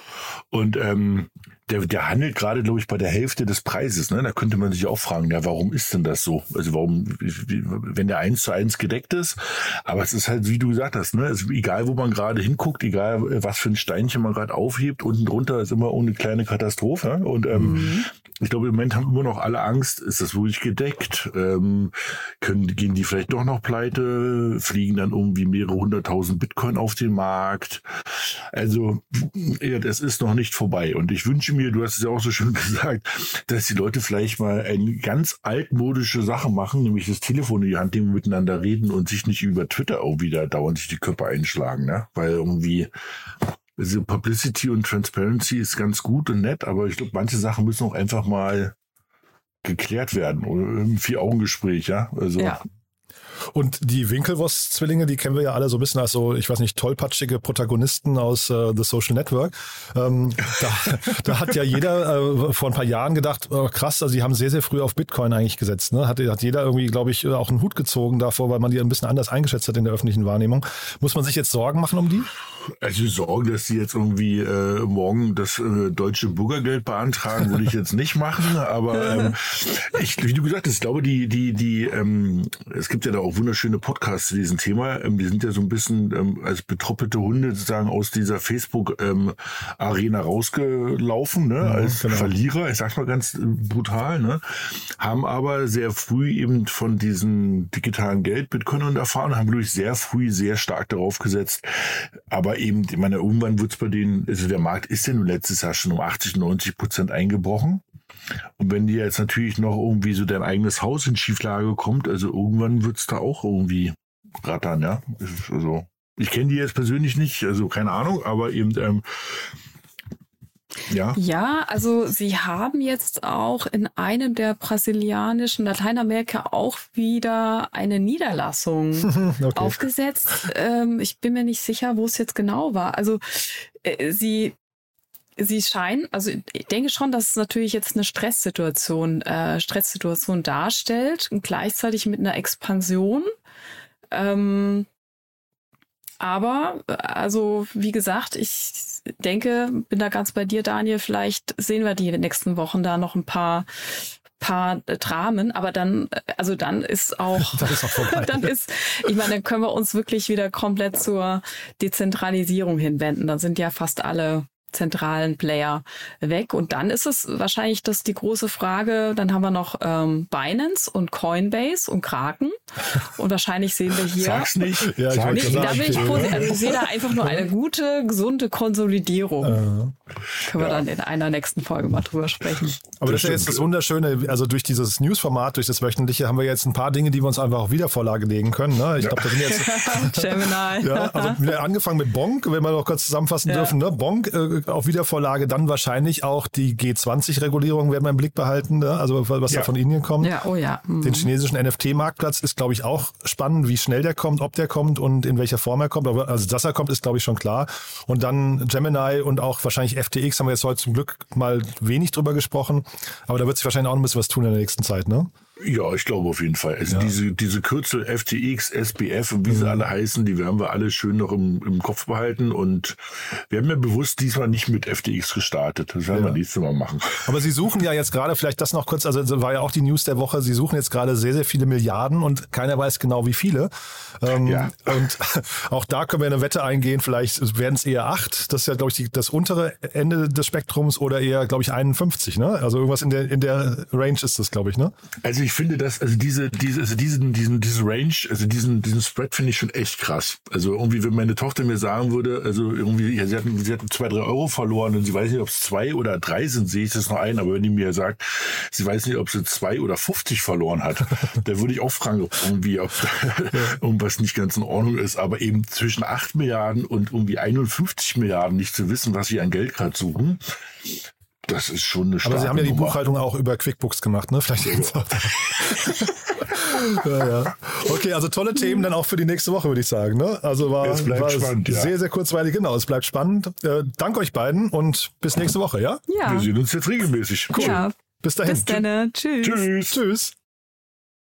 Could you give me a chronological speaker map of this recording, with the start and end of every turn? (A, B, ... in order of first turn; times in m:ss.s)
0:00.5-0:42.9 A
0:17.6-0:18.1 B
0:43.8-0:48.7 A
0:49.6-0:52.6 A
0:52.4-0:52.6 B
0:53.5-1:12.3 C
1:12.7-1:47.8 A
1:31.6-1:32.4 C
1:48.6-1:59.5 A
2:00.9-2:01.2 A
2:01.2-2:14.6 B
2:09.0-2:09.8 C
2:15.4-2:23.3 B
2:24.1-2:24.9 B
2:26.2-2:54.7 B
2:37.5-2:38.5 C
2:54.1-2:56.8 A
2:54.8-2:56.7 C
2:55.3-2:59.6 B
2:59.4-3:00.0 C
3:00.4-3:02.8 B
3:00.6-3:00.8 A
3:02.9-3:03.6 A
3:03.0-3:20.4 C
3:09.0-3:09.3 A
3:09.5-3:11.4 B
3:13.5-3:13.7 B
3:20.2-3:21.3 B
3:21.0-3:35.3 C
3:35.6-3:47.4 A
3:39.5-3:39.9 C
3:47.2-4:04.9 C
3:54.3-3:54.9 A
4:05.2-4:33.0 A
4:32.2-4:46.0 C
4:34.6-4:37.0 A
4:40.8-4:41.9 A
4:46.1-4:46.5 B
4:46.2-4:47.8 A
4:47.6-4:47.9 B
4:47.6-4:48.8 C
4:48.4-4:49.7 B
4:49.4-4:50.0 A
4:49.9-4:50.3 C